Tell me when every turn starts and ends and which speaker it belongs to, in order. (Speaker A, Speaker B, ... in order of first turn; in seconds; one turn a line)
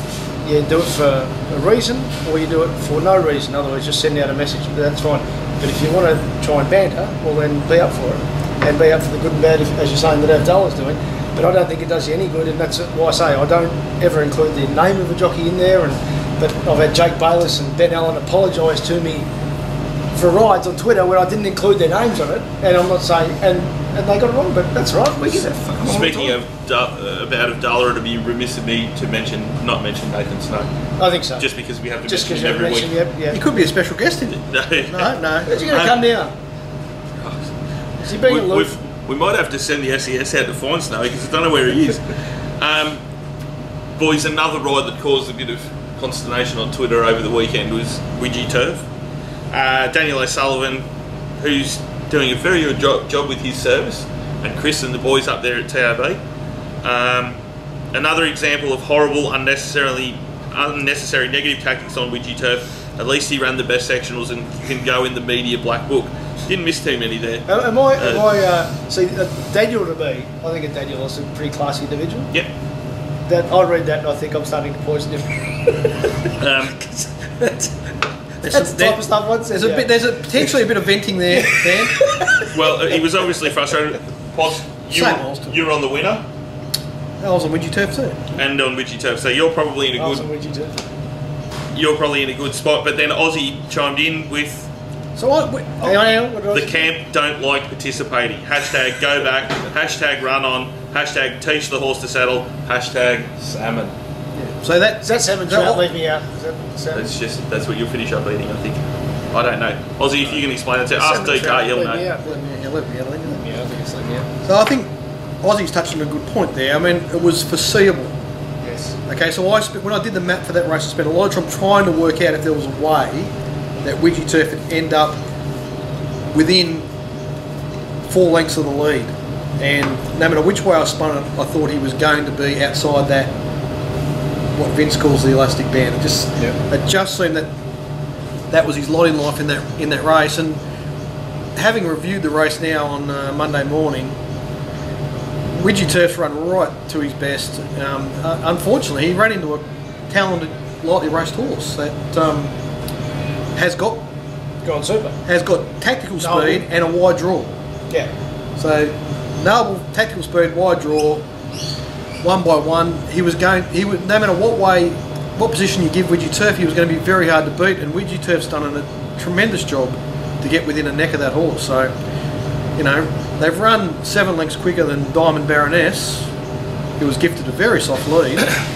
Speaker A: 0.4-19.3
Speaker A: 20.1-26.4
Speaker B: 25.8-30.7
Speaker A: 31.0-31.4
Speaker B: 31.4-32.9
Speaker A: 32.1-33.4
Speaker C: 33.3-35.9
Speaker B: 34.5-36.0
Speaker A: 35.5-36.3
Speaker B: 37.2-37.5
Speaker A: 38.0-38.7
Speaker B: 38.1-43.0
Speaker B: 44.0-48.8
Speaker B: 49.5-50.8
Speaker B: 51.4-56.2
Speaker B: 56.8-57.4
Speaker B: 57.9-68.2
Speaker A: 67.5-72.3
Speaker A: 73.3-75.5
Speaker B: 76.4-76.8
Speaker A: 77.4-77.7
Speaker C: 78.4-82.0
Speaker A: 78.4-79.9
Speaker A: 81.3-82.5
Speaker B: 82.4-86.2
Speaker C: 84.9-85.5
Speaker C: 87.2-88.2
Speaker B: 88.3-90.2
Speaker A: 90.0-90.8
Speaker B: 91.7-94.7
Speaker C: 95.2-96.0
Speaker A: 95.8-96.9
Speaker B: 96.5-103.9
Speaker C: 104.3-105.8
Speaker A: 105.0-107.0
Speaker B: 106.9-108.8
Speaker B: 109.3-112.0
Speaker A: 111.0-112.3
Speaker C: 112.2-113.4
Speaker A: 113.3-114.3
Speaker C: 114.4-114.9
Speaker C: 115.4-118.2
Speaker A: 118.6-119.0
Speaker C: 119.0-125.2
Speaker C: 126.3-126.9
Speaker C: 128.1-133.3
Speaker C: 134.5-137.5
Speaker C: 138.5-140.6
Speaker C: 141.6-144.2
Speaker C: 145.5-152.5
Speaker C: 153.6-154.1
Speaker A: 154.6-155.2
Speaker C: 155.2-157.6
Speaker A: 156.2-156.7
Speaker C: 158.6-161.2
Speaker C: 162.2-171.9
Speaker C: 172.8-176.3
Speaker C: 177.0-178.5